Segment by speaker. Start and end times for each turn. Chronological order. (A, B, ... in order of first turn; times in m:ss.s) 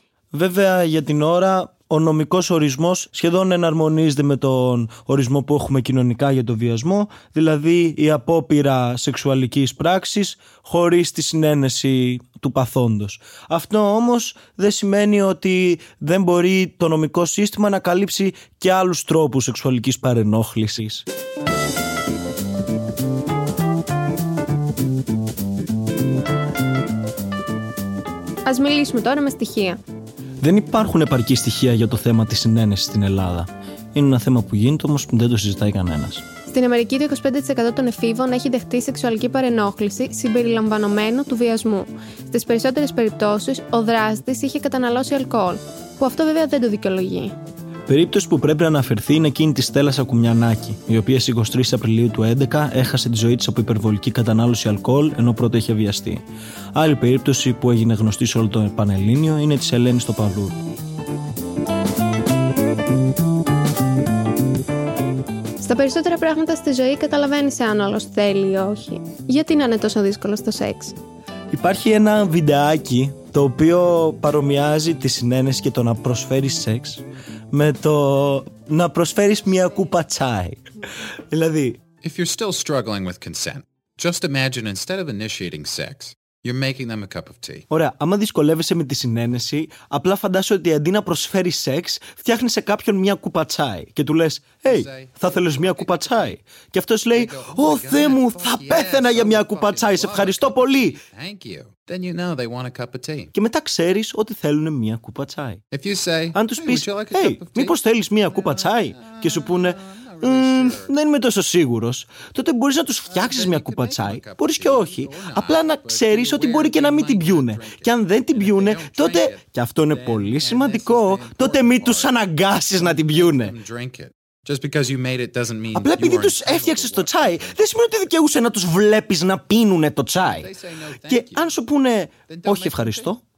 0:00.3-0:21.0 A
0:28.5-0:29.8 B
0:30.4-0:36.2 A
0:36.5-0:47.4 B
0:47.9-0:56.2 A
0:56.8-1:00.6 A
1:05.6-1:11.0 B
1:11.5-1:20.6 A
1:21.3-1:21.8 A
1:22.0-1:27.6 C
1:27.7-1:41.0 A
1:34.6-1:36.4 C
1:37.1-1:43.3 C
1:43.4-1:45.6 A
1:45.7-1:47.7 C
1:46.3-2:03.5 A
1:48.3-1:50.9 C
1:53.1-2:02.2 C
2:02.8-2:07.6 C
2:05.7-2:10.5 A
2:10.2-2:11.5 C
2:11.1-2:13.2 A
2:12.3-2:13.1 C